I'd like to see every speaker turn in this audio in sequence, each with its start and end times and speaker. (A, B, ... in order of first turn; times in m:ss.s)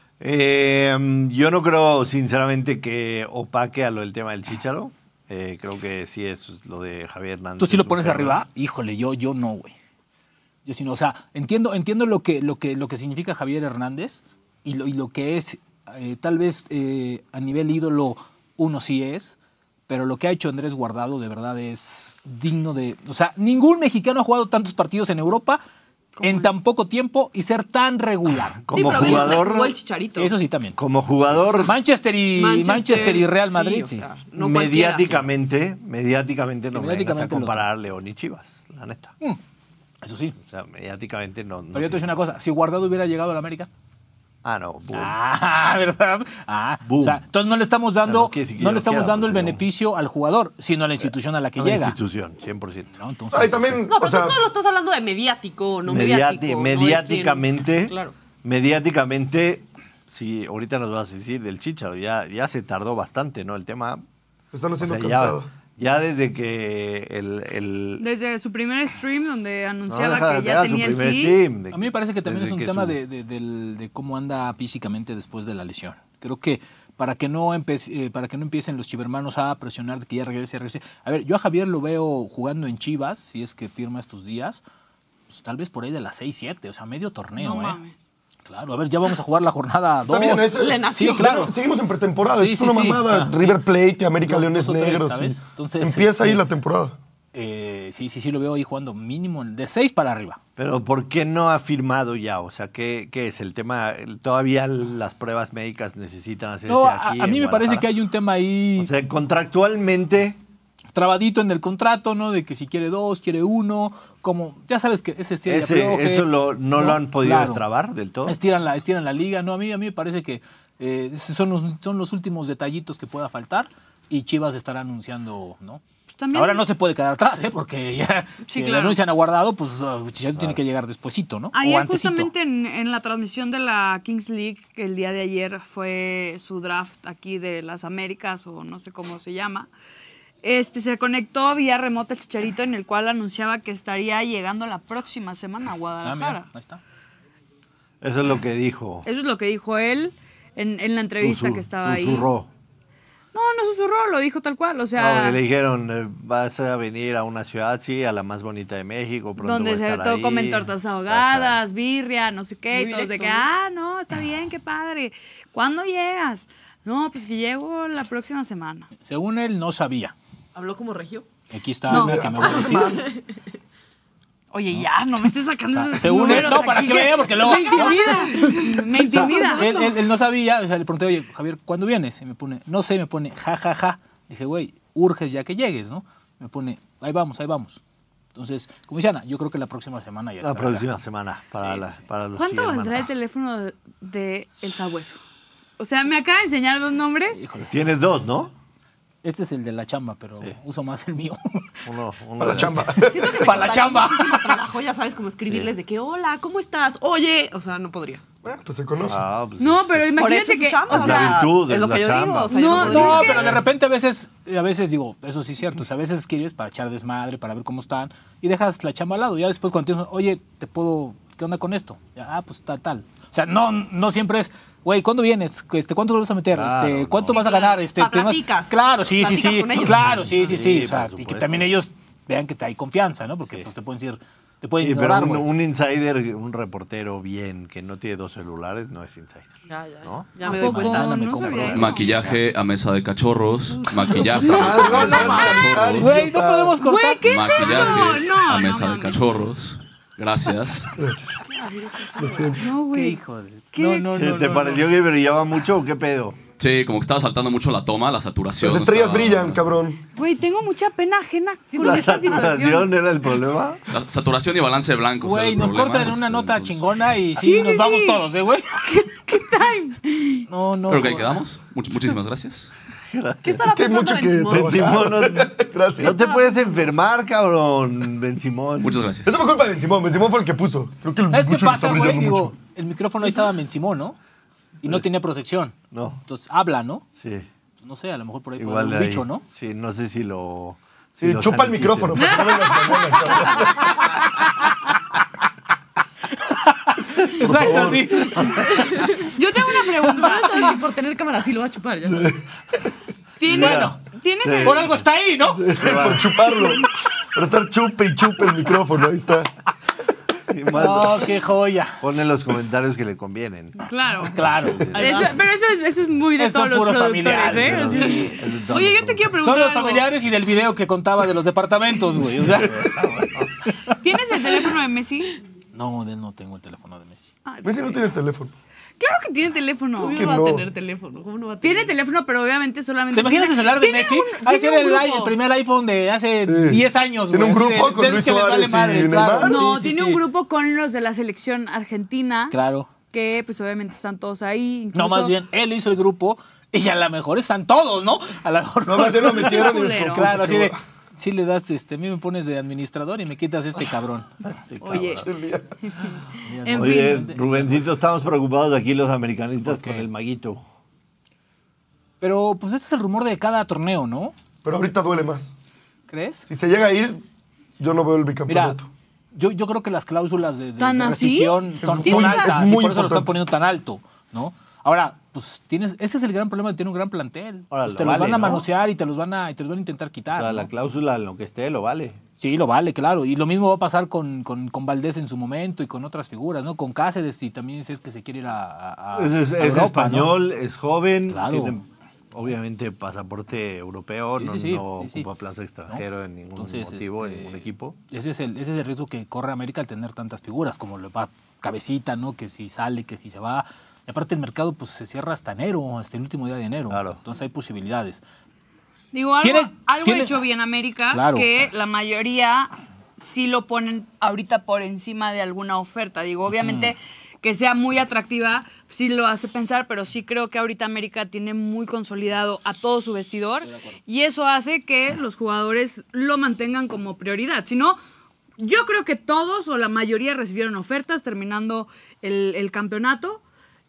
0:00.2-0:08.4 A
0:07.6-0:09.7 B
0:10.7-0:19.4 B
0:19.9-0:25.6 B
0:26.2-0:26.5 C
0:26.2-0:29.5 B
0:28.7-0:29.8 A
0:28.7-0:30.3 D
0:30.2-0:30.8 B
0:30.8-0:31.7 A
0:31.6-0:34.0 B
0:32.3-0:35.2 D
0:34.4-0:39.1 A
0:36.7-0:37.6 B
0:40.0-0:40.4 B
0:40.4-0:42.1 A
0:41.7-0:43.7 B
0:44.4-0:45.2 A
0:44.9-0:52.0 B
0:46.8-0:47.2 A
0:48.0-0:49.6 A
0:51.6-0:52.9 A
0:52.9-0:53.8 B
0:53.3-0:54.4 E
0:53.9-0:58.2 D
0:55.9-1:04.0 A
1:04.5-1:05.5 E
1:04.8-1:08.0 A
1:08.0-1:11.4 C
1:09.9-1:13.0 A
1:11.7-1:24.6 B
1:25.3-1:27.8 B
1:27.4-1:28.0 C
1:28.5-1:31.5 B
1:30.1-1:37.0 E
1:30.5-1:31.6 D
1:32.3-1:33.6 B
1:34.2-1:36.4 B
1:37.3-1:40.4 B
1:40.6-1:47.9 A
1:46.7-1:48.9 B
1:48.8-1:50.4 A
1:50.9-1:57.6 B
1:55.5-1:58.4 A
1:58.3-2:05.8 B
2:06.2-2:06.6 C
2:06.3-2:12.3 B
2:08.5-2:09.0 C
2:11.5-2:19.7 C
2:20.4-2:26.5 C
2:26.0-2:26.8 B
2:28.0-2:29.1 A
2:29.0-2:32.3 C
2:31.2-2:32.5 A
2:33.3-2:35.4 C
2:35.0-2:41.6 A
2:39.4-2:48.9 C
2:42.7-2:43.5 D
2:49.0-2:50.1 B
2:50.5-2:51.3 D
2:51.5-2:53.0 B
2:51.9-2:52.7 C
2:51.9-2:52.9 E
2:52.4-2:53.4 D
2:54.5-2:59.9 C
2:54.7-3:07.8 B
2:56.2-2:59.6 D
3:08.4-3:10.9 B
3:10.4-3:13.1 A
3:11.6-3:12.0 B
3:12.4-3:15.2 C
3:15.8-3:17.4 C
3:17.3-3:17.7 B
3:17.7-3:18.5 A
3:19.2-3:21.9 B
3:21.8-3:23.0 A
3:22.4-3:23.4 E
3:22.8-3:24.6 B
3:23.0-3:28.2 D
3:28.4-3:29.2 E
3:29.0-3:30.2 A
3:29.6-3:31.4 C
3:30.2-3:33.5 D
3:30.9-3:33.3 A
3:32.5-3:33.6 C
3:32.7-3:55.5 B
3:46.5-3:47.4 A
3:47.3-3:50.1 D
3:50.0-3:51.8 A
3:54.8-4:00.4 A
3:59.7-4:02.1 D
4:00.4-4:02.1 C
4:00.5-4:02.3 B
4:01.4-4:01.9 A
4:01.6-4:06.3 F
4:03.7-4:04.6 D
4:04.4-4:08.0 B
4:04.4-4:06.8 E
4:04.5-4:05.7 C
4:06.8-4:09.4 C
4:07.3-4:10.9 F
4:11.0-4:11.4 E
4:11.4-4:12.6 D
4:12.2-4:12.6 E
4:12.6-4:13.2 C
4:12.9-4:15.0 B
4:13.7-4:14.1 C
4:14.2-4:16.4 A
4:16.6-4:19.6 F
4:18.6-4:20.0 E
4:20.2-4:22.9 C
4:21.7-4:22.8 D
4:21.8-4:23.8 A
4:23.9-4:26.8 F
4:25.2-4:29.0 B
4:27.4-4:28.3 C
4:28.8-4:30.4 C
4:30.5-4:31.4 B
4:30.9-4:32.7 F
4:33.1-4:33.6 A
4:33.4-4:35.1 D
4:33.7-4:36.2 E
4:34.5-4:39.1 A
4:36.0-4:36.6 D
4:38.8-4:39.5 F
4:39.2-4:42.5 E
4:41.3-4:44.2 B
4:44.8-4:47.0 B
4:45.9-4:46.2 A
4:47.2-4:47.5 A
4:47.8-4:49.4 B
4:48.6-4:52.4 A
4:51.2-4:54.0 E
4:52.2-4:53.8 C
4:54.4-4:54.7 C
4:56.3-4:58.8 B
4:57.4-4:58.5 E
4:58.4-4:58.6 A
4:58.8-5:02.3 D
4:59.2-5:00.8 C
5:03.4-5:05.1 C
5:03.4-5:06.6 A
5:03.5-5:04.0 B
5:04.6-5:05.6 B
5:05.8-5:09.5 E
5:10.5-5:11.3 A
5:10.7-5:12.0 B
5:12.0-5:15.4 A
5:13.8-5:14.4 C
5:14.3-5:14.9 B
5:14.9-5:20.1 C
5:15.0-5:15.3 D
5:16.4-5:18.4 B
5:17.5-5:19.3 A
5:19.4-5:23.0 B
5:22.4-5:23.5 A
5:23.6-5:24.0 B
5:23.9-5:25.4 C
5:25.7-5:27.3 B
5:27.5-5:28.0 C
5:27.6-5:28.5 E
5:29.0-5:30.2 C
5:30.0-5:31.9 D
5:30.2-5:30.6 E
5:31.6-5:35.4 C
5:33.1-5:40.2 B
5:36.4-5:39.6 E
5:39.4-5:42.6 C
5:42.5-5:42.9 B
5:43.1-5:45.4 C
5:44.9-5:54.3 B
5:48.8-5:50.8 E
5:49.4-5:50.3 C
5:54.4-5:55.3 A
5:54.8-5:55.3 C
5:55.2-5:55.7 E
5:55.8-5:57.2 C
5:56.4-5:57.9 B
5:56.7-6:00.6 A
5:59.6-6:00.1 B
6:02.2-6:04.3 B
6:04.6-6:05.6 E
6:06.1-6:06.5 B
6:06.5-6:07.2 E
6:07.8-6:08.9 E
6:08.5-6:08.8 B
6:09.3-6:20.7 B
6:10.8-6:12.6 C
6:11.8-6:13.3 E
6:17.7-6:18.7 A
6:20.4-6:22.2 A
6:22.4-6:30.4 B
6:29.1-6:38.0 A
6:31.3-6:31.8 B
6:34.4-6:35.3 B
6:36.6-6:48.2 B
6:46.9-6:47.2 A
6:49.1-7:08.0 C
6:49.4-6:50.4 B
6:51.1-6:51.5 B
6:56.5-6:56.9 B
7:08.6-7:13.4 C